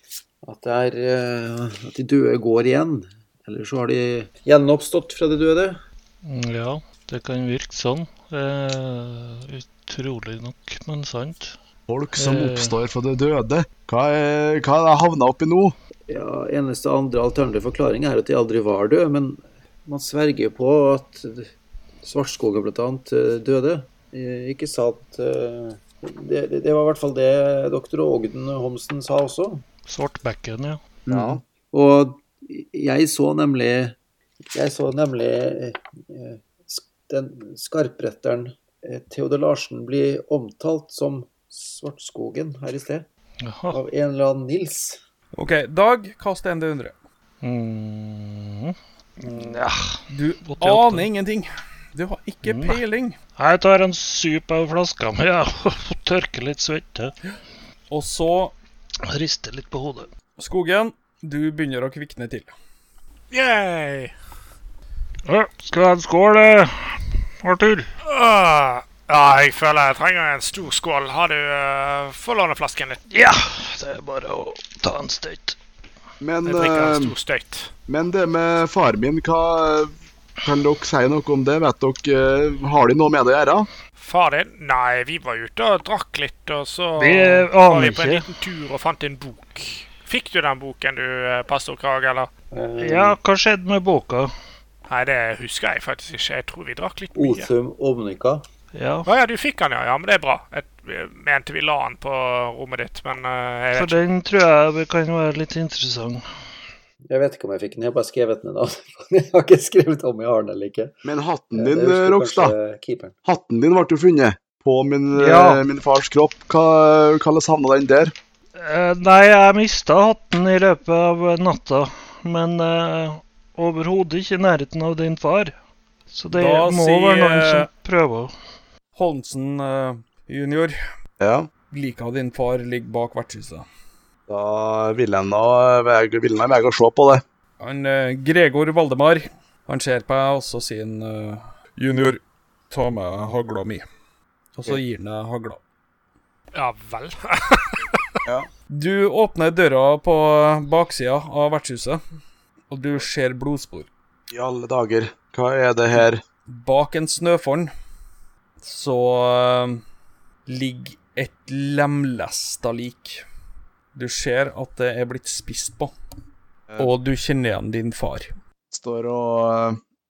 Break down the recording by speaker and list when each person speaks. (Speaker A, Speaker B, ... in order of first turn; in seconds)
Speaker A: 0.4-5.8, 16.1-21.5, 22.0-29.6, 31.1-34.0, 34.5-43.1, 43.7-45.0, 92.5-93.2, 97.2-98.4, 107.1-110.9, 111.5-113.1
Speaker B: 6.2-11.6, 12.2-12.8, 29.9-30.8, 43.4-43.8, 47.4-51.1, 52.4-52.8, 53.4-57.1, 59.0-60.1, 65.2-67.9, 73.1-75.6, 87.0-88.2, 92.8-94.3, 98.7-99.1, 103.7-106.2, 115.1-115.6, 118.5-125.5, 126.1-128.3
Speaker C: 11.9-15.7, 31.1-31.4, 76.2-77.1, 77.9-79.9, 80.4-83.7, 111.0-112.5, 113.2-118.1, 131.2-131.5, 134.3-137.2, 154.3-156.2, 168.7-169.8
Speaker D: 45.3-46.9, 50.1-53.1, 57.9-58.5, 60.4-62.5, 126.3-127.7, 128.9-130.7, 131.7-133.6, 137.6-143.8, 144.6-145.6, 148.7-152.0, 152.7-153.9, 156.5-157.7, 158.6-159.8, 160.5-163.2, 163.9-165.9, 166.8-168.3
Speaker E: 63.3-64.1, 68.0-73.0, 76.5-77.7, 84.0-92.3, 94.9-97.5, 99.1-104.0, 146.5-148.2